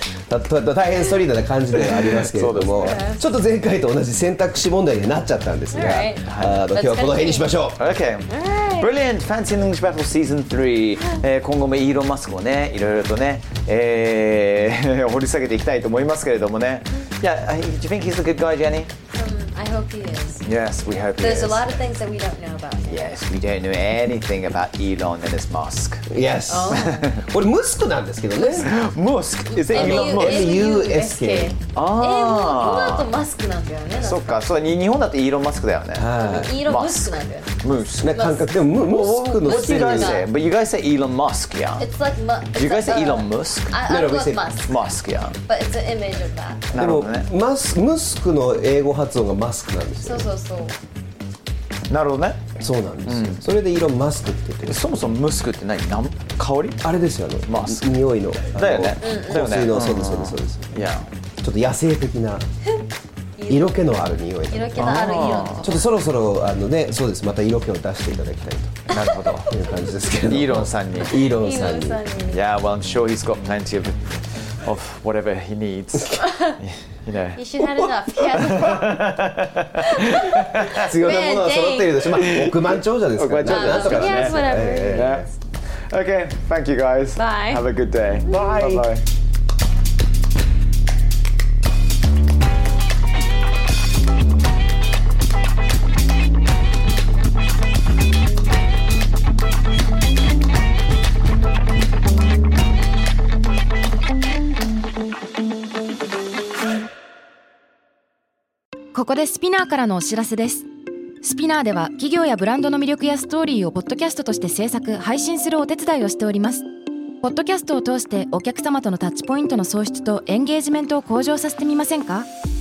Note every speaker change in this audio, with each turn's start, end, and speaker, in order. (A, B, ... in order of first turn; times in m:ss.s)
0:00.3-0:07.8 A
0:01.8-0:03.0 B
0:02.8-0:03.3 C
0:05.7-0:07.6 C
0:06.2-0:06.6 B
0:07.8-0:18.9 B
0:08.3-0:08.9 C
0:19.1-0:20.4 C
0:20.4-0:21.8 B
0:21.1-0:23.1 C
0:22.9-0:26.0 B
0:26.1-0:28.7 A
0:26.5-0:27.1 C
0:26.7-0:27.2 B
0:28.3-0:28.6 C
0:28.6-0:30.7 B
0:29.6-0:34.4 C
0:29.7-0:31.6 A
0:31.7-0:33.1 B
0:34.0-0:38.2 B
0:36.0-0:36.6 A
0:36.1-0:38.5 C
0:38.0-0:40.2 A
0:38.8-0:41.9 B
0:39.4-0:40.3 C
0:41.8-0:44.7 C
0:42.6-0:43.8 B
0:43.9-0:44.5 A
0:44.6-0:45.4 B
0:45.5-0:46.8 C
0:46.7-0:47.3 B
0:46.7-0:50.3 A
0:50.0-0:50.8 C
0:51.9-0:52.4 B
0:52.6-0:55.1 A
0:53.1-0:53.4 B
0:54.6-0:56.9 B
0:56.8-1:00.8 A
0:57.5-0:57.9 B
0:58.5-1:01.1 B
0:59.0-0:59.4 C
1:01.4-1:02.4 A
1:03.4-1:04.0 C
1:03.5-1:04.9 A
1:04.5-1:05.9 C
1:04.8-1:05.8 B
1:05.6-1:09.0 A
1:08.9-1:09.5 B
1:09.5-1:12.0 A
1:09.5-1:09.8 C
1:10.2-1:11.1 B
1:11.2-1:12.4 C
1:12.3-1:14.1 B
1:14.6-1:17.5 B
1:16.3-1:16.5 C
1:17.4-1:19.0 C
1:18.2-1:20.8 B
1:20.0-1:22.1 C
1:20.7-1:25.3 A
1:22.2-1:25.3 B
1:23.4-1:25.3 C
1:25.9-1:29.0 B
1:27.2-1:27.6 C
1:28.3-1:28.9 A
1:48.9-1:50.7 D
1:51.2-1:56.6 D
1:57.2-2:02.3 D